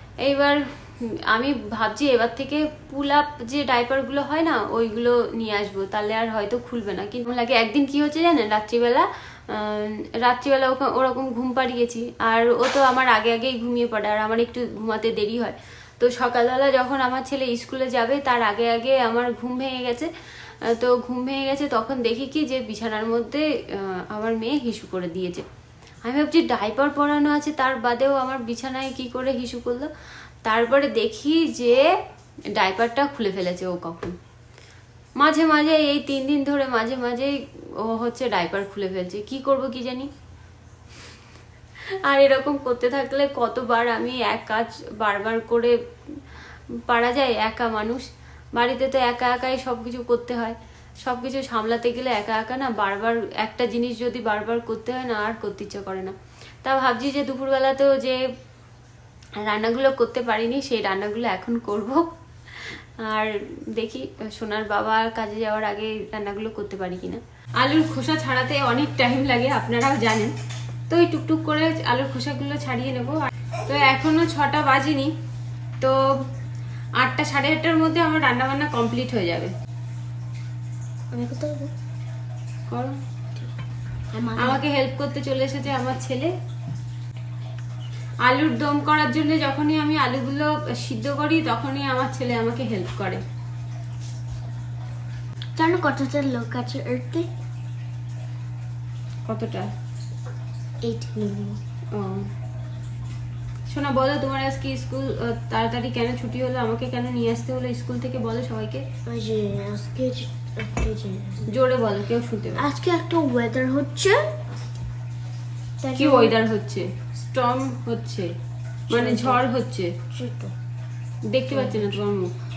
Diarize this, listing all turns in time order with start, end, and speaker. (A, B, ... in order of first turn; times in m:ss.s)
0:00.2-0:20.1 A
0:20.6-0:25.4 A
0:26.0-0:29.9 A
0:30.4-0:31.9 A
0:32.5-0:34.2 A
0:35.2-0:40.1 A
0:41.9-0:45.7 A
0:46.9-0:58.2 A
0:59.4-1:02.1 A
1:02.6-1:10.3 A
1:10.9-1:15.1 A
1:15.8-1:16.1 A
1:17.0-1:19.5 A
1:21.1-1:21.7 B
1:22.7-1:23.0 A
1:24.1-1:24.6 B
1:24.4-1:26.3 A
1:28.2-1:33.2 A
1:35.6-1:37.3 B
1:39.3-1:39.7 A
1:40.8-1:41.6 B
1:41.9-1:42.3 A
1:43.7-1:48.8 A
1:49.0-1:51.5 B
1:51.5-1:52.6 A
1:52.6-1:54.4 B
1:55.8-1:56.4 B
1:56.0-1:58.3 A
1:58.9-1:59.4 B
1:58.9-1:59.9 A
2:00.1-2:00.5 B
2:01.3-2:02.3 A
2:01.5-2:02.0 B